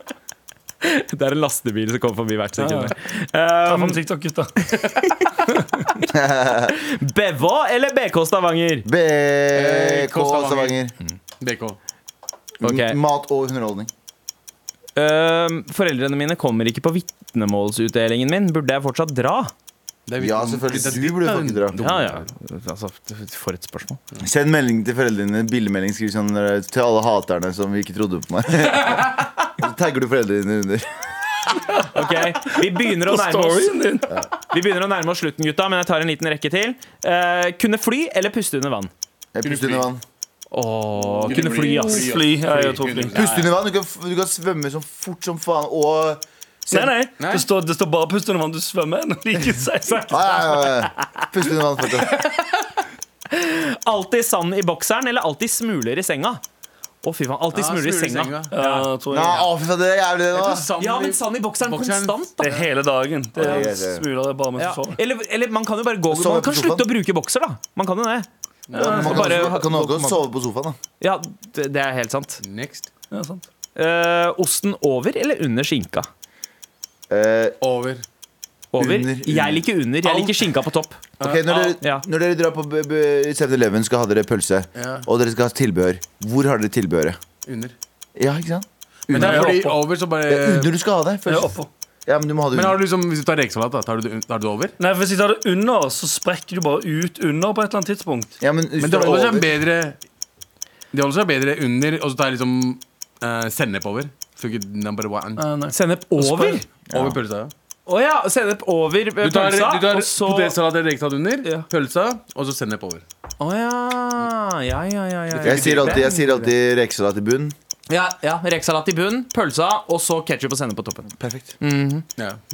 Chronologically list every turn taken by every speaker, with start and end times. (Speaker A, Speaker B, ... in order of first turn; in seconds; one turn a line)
Speaker A: 0.8-4.0
Speaker B: 2.6-2.9
Speaker B: 3.6-4.5
Speaker A: 4.6-5.3
Speaker B: 5.5-5.9
Speaker C: 6.1-6.7
Speaker A: 6.6-8.8
Speaker C: 8.8-10.9
Speaker D: 9.5-10.8
Speaker D: 11.4-11.8
Speaker C: 12.6-13.9
Speaker A: 12.6-13.0
Speaker A: 14.9-19.5
Speaker D: 20.1-22.2
Speaker C: 20.2-21.8
Speaker A: 21.8-24.0
Speaker C: 24.2-30.9
Speaker A: 31.8-33.8
Speaker B: 32.9-34.1
Speaker A: 34.5-38.9
Speaker C: 39.3-40.0
Speaker D: 39.4-39.9
Speaker A: 40.5-42.1
Speaker D: 40.9-43.5
Speaker B: 41.6-43.1
Speaker C: 43.1-46.9
Speaker B: 46.7-50.1
Speaker D: 47.2-47.5
Speaker A: 49.9-51.2
Speaker C: 50.1-52.2
Speaker A: 53.3-56.4
Speaker A: 57.0-58.9
Speaker D: 57.5-58.5
Speaker B: 58.5-59.5
Speaker C: 59.1-60.7
Speaker D: 60.3-62.2
Speaker A: 60.8-62.6
Speaker B: 62.4-65.0
Speaker C: 63.4-64.0
Speaker A: 64.6-68.3
Speaker C: 66.1-66.9
Speaker D: 68.7-69.5
Speaker B: 68.7-69.9
Speaker C: 68.8-70.8
Speaker A: 68.8-69.6
Speaker A: 71.0-72.4
Speaker D: 72.4-72.9
Speaker B: 73.1-73.4
Speaker A: 73.8-76.1
Speaker C: 77.1-77.6
Speaker D: 77.6-78.0
Speaker A: 78.7-82.0
Speaker C: 78.8-80.3
Speaker D: 81.2-81.7
Speaker C: 81.2-87.2
Speaker D: 84.8-85.0
Speaker D: 87.4-87.7
Speaker C: 88.2-92.8
Speaker D: 89.1-90.7
Speaker B: 89.1-89.7
Speaker B: 91.3-91.7
Speaker D: 92.5-94.8
Speaker B: 94.8-98.3
Speaker C: 98.4-99.6
Speaker D: 98.8-100.0
Speaker D: 100.9-105.4
Speaker B: 105.4-106.5
Speaker A: 105.7-106.6
Speaker C: 106.9-107.2
Speaker D: 106.9-107.5
Speaker A: 107.8-110.6
Speaker D: 109.2-113.0
Speaker A: 113.4-116.5
Speaker D: 115.3-116.0
Speaker C: 115.4-117.5
Speaker A: 117.9-121.1
Speaker C: 121.2-121.5
Speaker A: 121.6-122.0